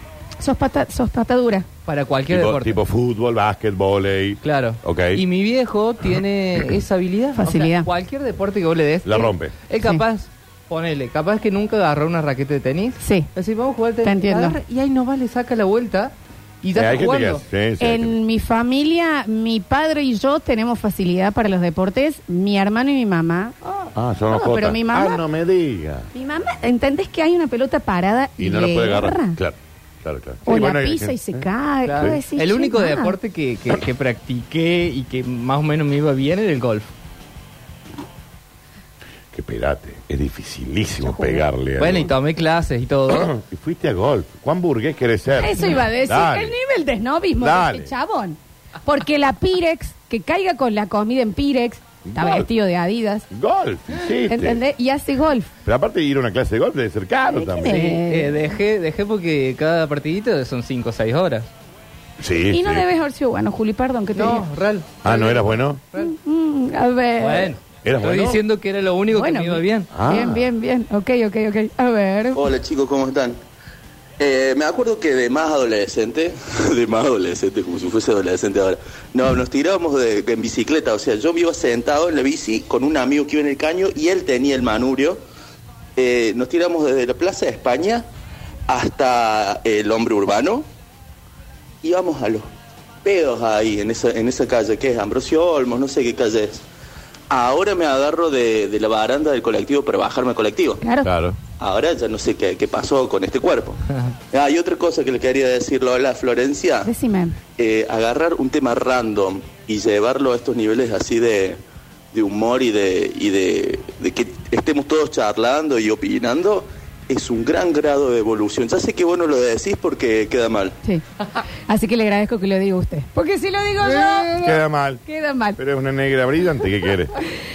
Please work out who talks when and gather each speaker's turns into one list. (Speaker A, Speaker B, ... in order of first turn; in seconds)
Speaker A: 0.4-1.6, 7.3-7.9, 13.0-13.3, 14.0-14.6, 17.8-25.2, 26.1-29.4, 30.4-33.1, 41.0-41.4, 45.4-53.2, 54.3-55.5, 57.3-58.4, 62.5-64.5, 66.0-67.5, 69.1-72.4, 100.8-101.1, 106.8-107.3, 121.7-125.6
Speaker B: 1.8-2.8, 4.4-17.4, 31.8-36.9, 41.8-43.3, 57.6-61.5, 64.2-66.1, 67.2-69.9, 123.8-124.4
Speaker C: 2.3-5.2, 9.0-9.5, 16.7-18.2, 23.9-26.1, 28.4-32.2, 39.3-42.1, 43.1-46.5, 47.4-47.9, 52.0-52.5, 53.3-54.6, 55.6-57.9, 62.2-62.9, 65.0-65.8, 67.8-68.4, 69.9-70.5, 101.0-101.4, 124.4-125.0, 125.5-127.1
Speaker D: 72.3-73.4, 74.2-85.2, 86.0-88.0, 88.7-90.7, 91.8-92.5, 93.0-96.6, 97.3-100.8, 101.6-106.9, 107.6-111.6, 112.1-120.7